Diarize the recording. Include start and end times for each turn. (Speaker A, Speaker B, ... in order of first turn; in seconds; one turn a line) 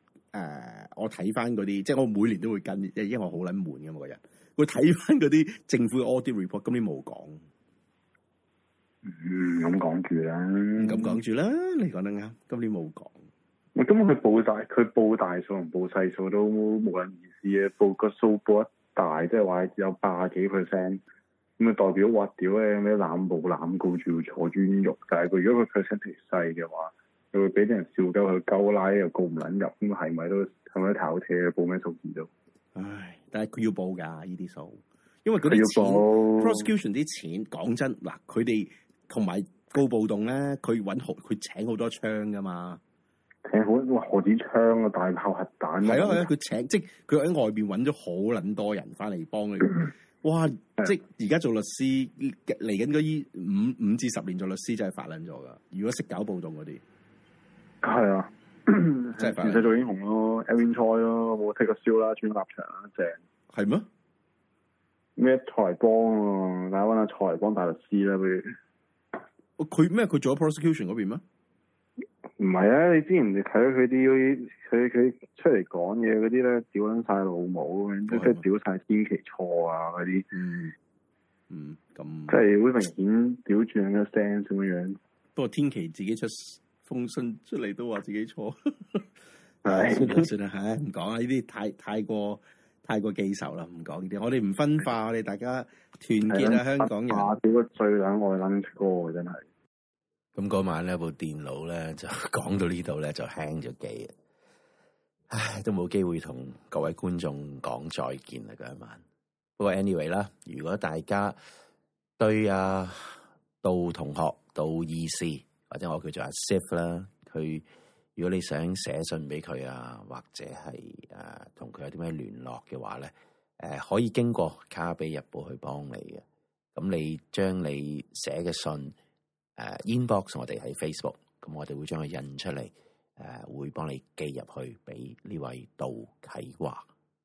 Speaker A: 0.3-7.4
Speaker B: 9.0-11.2
Speaker A: 10.8-13.2
Speaker B: 13.8-21.0
Speaker B: 21.6-32.3
Speaker A: 32.7-42.8
Speaker B: 35.4-36.7
Speaker B: 43.5-46.3
Speaker A: 45.8-56.8
Speaker B: 57.8-63.2
Speaker A: 59.2-59.7
Speaker A: 63.5-63.9
Speaker B: 65.2-68.6
Speaker A: 69.6-71.2
Speaker B: 72.4-80.3
Speaker A: 78.1-78.4
Speaker A: 80.3-80.7
Speaker A: 81.5-82.4
Speaker B: 82.3-85.0
Speaker A: 85.3-89.1
Speaker A: 89.6-97.3
Speaker B: 89.6-90.3
Speaker B: 96.3-99.4
Speaker C: 100.3-104.1
Speaker C: 105.3-109.0
Speaker C: 109.6-111.4
Speaker C: 112.2-117.6
Speaker C: 118.2-126.2
Speaker C: 126.7-128.9
Speaker C: 129.6-136.9